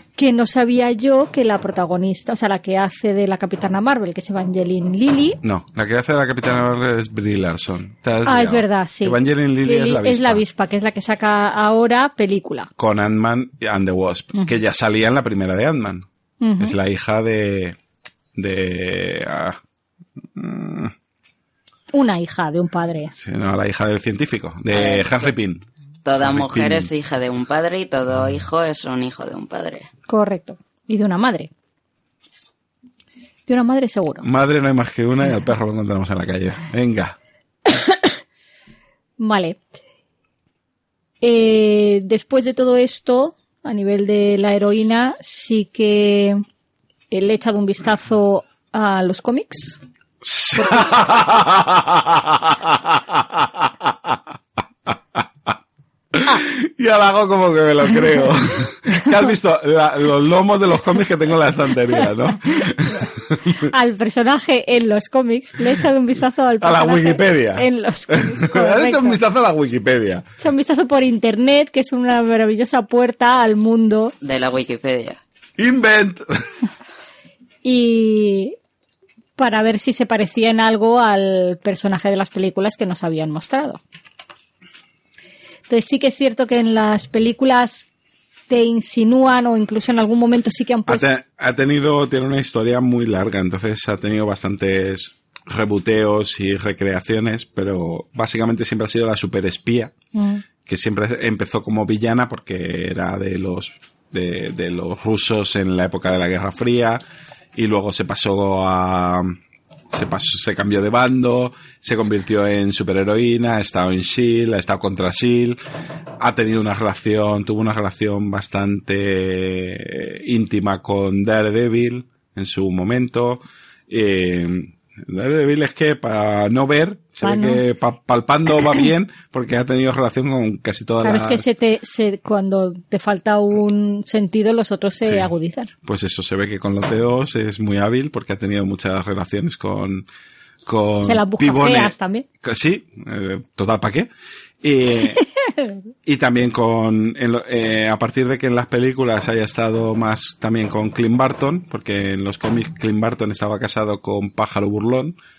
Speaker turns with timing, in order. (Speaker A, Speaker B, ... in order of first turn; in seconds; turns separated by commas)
Speaker A: 0.2-5.4, Speaker B: 5.4-10.4, Speaker A: 8.2-12.7, Speaker B: 12.8-16.1, Speaker A: 16.4-16.7, Speaker B: 16.6-17.8, Speaker B: 18.4-19.6, Speaker B: 20.4-20.9, Speaker A: 21.9-23.1, Speaker B: 23.1-25.6, Speaker C: 24.7-25.3, Speaker C: 26.1-29.9, Speaker B: 26.2-26.9, Speaker A: 30.1-31.5, Speaker A: 33.5-34.3, Speaker B: 34.2-37.1, Speaker A: 39.2-39.6, Speaker A: 41.2-46.4, Speaker A: 47.1-49.8, Speaker B: 50.2-54.2, Speaker A: 50.6-50.9, Speaker B: 56.1-63.7, Speaker A: 63.6-69.2, Speaker B: 66.6-70.2, Speaker A: 70.4-74.2, Speaker C: 74.2-75.2, Speaker B: 75.6-76.3, Speaker A: 77.6-78.5, Speaker A: 79.4-83.8, Speaker A: 85.7-87.9, Speaker A: 88.5-91.1, Speaker B: 90.9-99.9, Speaker A: 100.2-100.4, Speaker B: 100.7-107.0, Speaker B: 107.5-109.4, Speaker B: 109.9-115.6, Speaker B: 116.2-131.4, Speaker A: 127.2-127.6, Speaker A: 131.0-135.7, Speaker B: 135.0-135.3, Speaker B: 135.8-140.1, Speaker B: 140.7-144.1, Speaker A: 141.0-142.2, Speaker B: 144.6-145.2, Speaker A: 145.2-145.8, Speaker B: 146.1-155.2